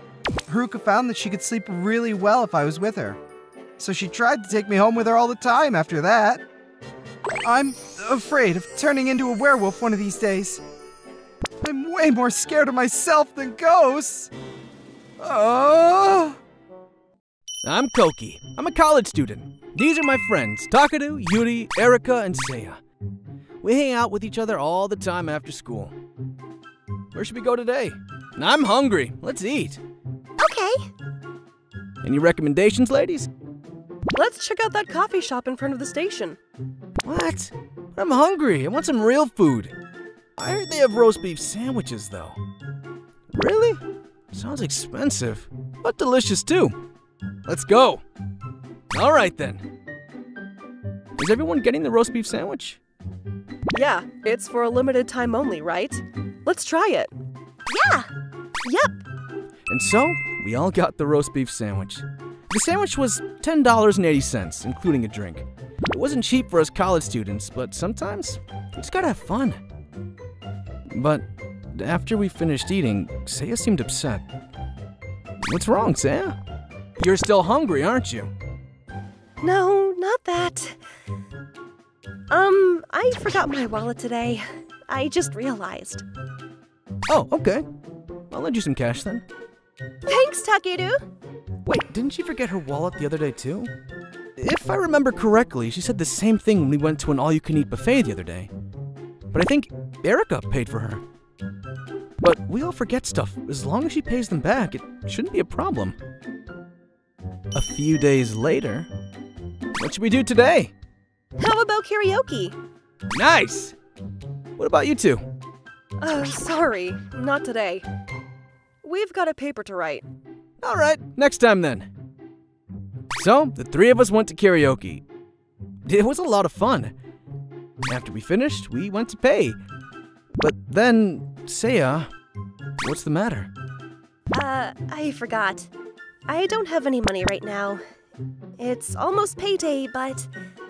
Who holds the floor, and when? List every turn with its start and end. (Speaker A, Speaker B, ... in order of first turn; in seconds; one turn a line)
Speaker A: 0.5-3.2
Speaker A: 3.8-6.4
Speaker A: 7.4-10.6
Speaker A: 11.6-14.3
Speaker A: 15.2-16.4
Speaker B: 17.6-22.8
Speaker B: 23.6-25.9
Speaker B: 27.1-29.8
Speaker C: 30.4-30.9
Speaker B: 32.0-33.3
Speaker C: 34.1-36.4
Speaker B: 37.0-39.7
Speaker B: 40.4-42.4
Speaker B: 43.3-46.8
Speaker B: 47.5-48.0
Speaker B: 48.9-49.6
Speaker B: 51.2-52.8
Speaker C: 53.7-57.1
Speaker C: 57.7-58.1
Speaker C: 58.6-58.9
Speaker B: 59.7-69.6
Speaker B: 70.9-74.2
Speaker B: 75.4-76.3
Speaker B: 77.0-78.3
Speaker C: 79.4-80.8
Speaker C: 82.3-86.0
Speaker B: 87.1-87.7
Speaker B: 88.3-89.2
Speaker C: 90.0-91.0
Speaker B: 91.6-93.7
Speaker B: 94.4-98.5
Speaker B: 99.3-101.0
Speaker B: 102.2-106.0
Speaker B: 107.5-108.9
Speaker B: 109.8-110.7
Speaker C: 111.4-112.5
Speaker B: 113.1-113.7
Speaker B: 114.6-115.3
Speaker C: 116.0-117.8
Speaker C: 118.8-120.0
Speaker B: 120.6-121.9
Speaker B: 123.2-125.0
Speaker B: 125.8-126.9
Speaker B: 127.8-129.6
Speaker B: 130.4-132.1
Speaker B: 132.8-133.5
Speaker C: 134.3-135.7
Speaker C: 136.3-137.8
Speaker C: 138.6-140.3